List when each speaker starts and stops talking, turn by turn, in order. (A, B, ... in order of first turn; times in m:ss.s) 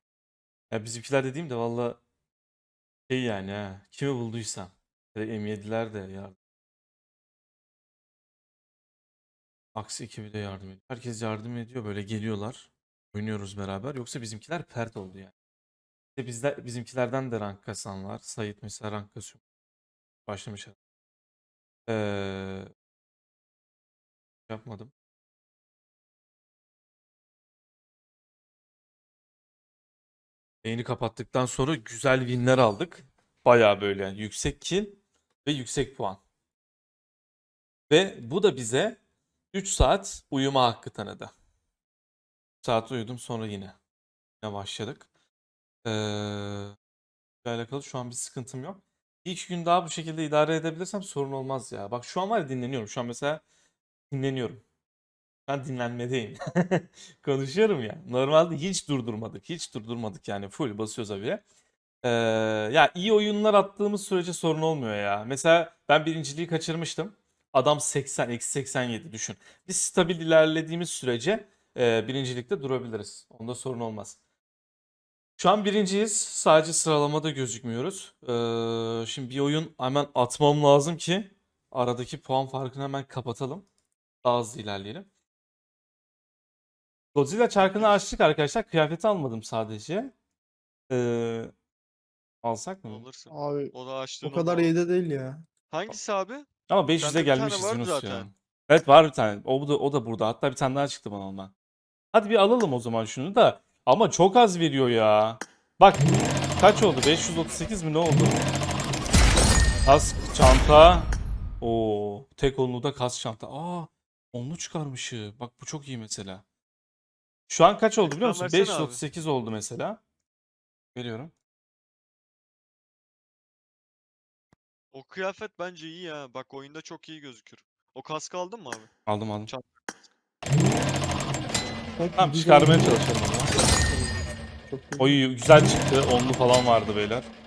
0:00.7-0:02.0 A
0:03.1-0:06.4 A
0:09.7-0:15.3 A
0:16.2-0:19.4 A
0:20.3-0:20.8 A
0:21.9-0:22.7 A
0:24.5-0:24.9 A
0:30.6-0:36.2 A
0:37.9-0:39.0 A
0:39.5-0:41.3 A
0:42.6-0:43.8 A
0:44.4-0:45.1 A
0:45.8-0:46.8 A
0:47.4-0:53.4 A
0:54.1-0:54.6 A
0:55.5-1:01.4 A
1:02.0-1:14.2 A
1:15.4-1:23.7 A
1:24.2-1:25.1 A
1:27.1-1:30.1 A
1:27.6-1:28.1 B
1:30.9-1:31.5 A
1:32.4-1:33.0 A
1:32.8-1:34.7 B
1:33.3-1:35.4 C
1:35.7-1:36.5 B
1:36.7-1:41.5 A
1:37.0-1:38.3 B
1:42.1-1:46.1 A
1:46.6-1:48.4 A
1:49.8-1:56.4 A
1:57.5-2:00.0 A
1:58.0-1:59.0 B
2:00.9-2:01.3 A
2:04.9-2:08.9 B
2:09.1-2:09.5 A
2:09.5-2:10.0 B
2:12.0-2:15.2 C
2:12.2-2:13.6 A
2:15.0-2:17.3 A